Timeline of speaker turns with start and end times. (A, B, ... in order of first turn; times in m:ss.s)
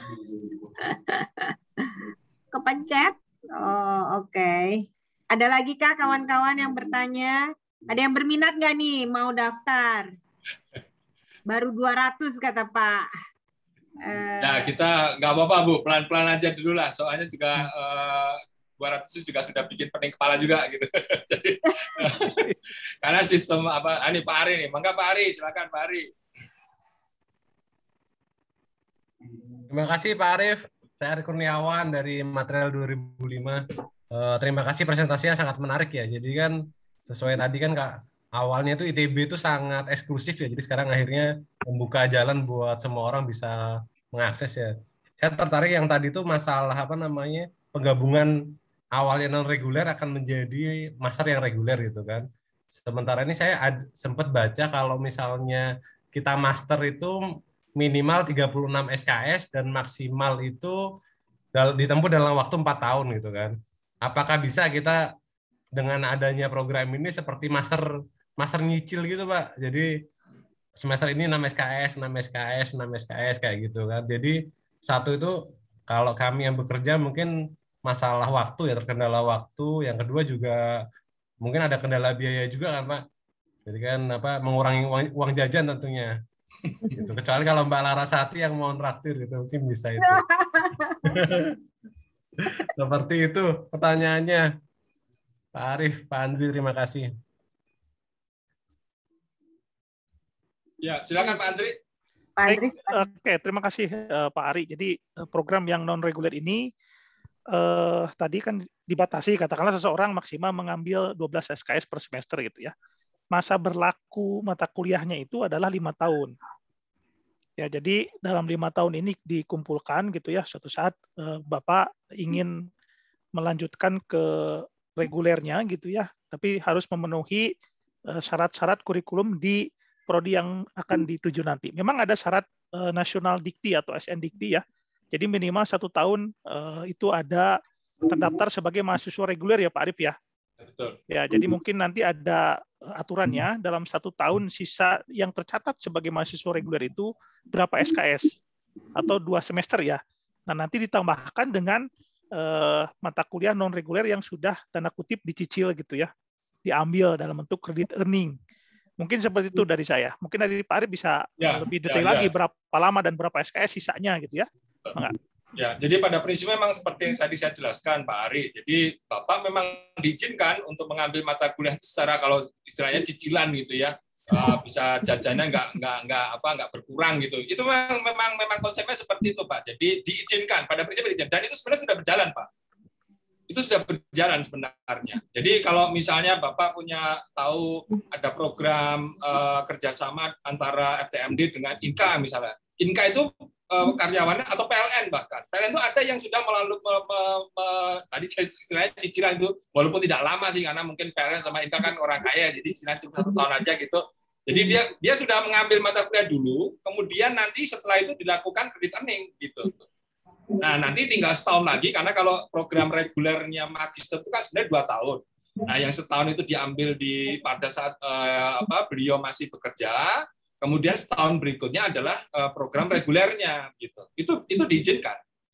0:00.9-0:01.5 A
0:02.5-0:04.8 A
0:05.3-0:10.1 A
0:11.5-0:13.1 A
0:14.0-0:14.7 A
0:14.4-0:22.5 B
0:23.0-0:26.1 B
0:29.7-0:48.3 C
0:49.0-0:57.2 C
0:57.8-1:00.8 C
1:01.6-1:05.0 C
1:05.8-1:07.9 C
1:08.4-1:10.0 C
1:10.8-1:17.3 C
1:17.8-1:20.8 C
1:21.4-1:23.0 C
1:23.7-1:26.2 C
1:26.9-1:30.2 C
1:30.0-1:31.2 A
1:31.1-1:31.5 C
1:32.8-1:34.5 C
1:35.6-1:37.1 C
1:40.8-1:41.8 B
1:42.4-1:43.0 A
1:42.5-1:46.6 D
1:47.5-1:52.7 D
1:53.3-1:56.3 D
1:57.6-2:02.6 D
2:03.4-2:07.5 D
2:08.2-2:14.6 D
2:15.1-2:17.5 D
2:18.1-2:20.2 D
2:20.6-2:21.0 B
2:21.1-2:28.4 D
2:29.0-2:31.8 D
2:32.4-2:36.1 D
2:36.7-2:38.4 D
2:39.0-2:45.2 D
2:41.4-2:42.3 B
2:45.6-3:02.5 B
3:03.5-3:29.7 B
3:30.6-3:45.2 B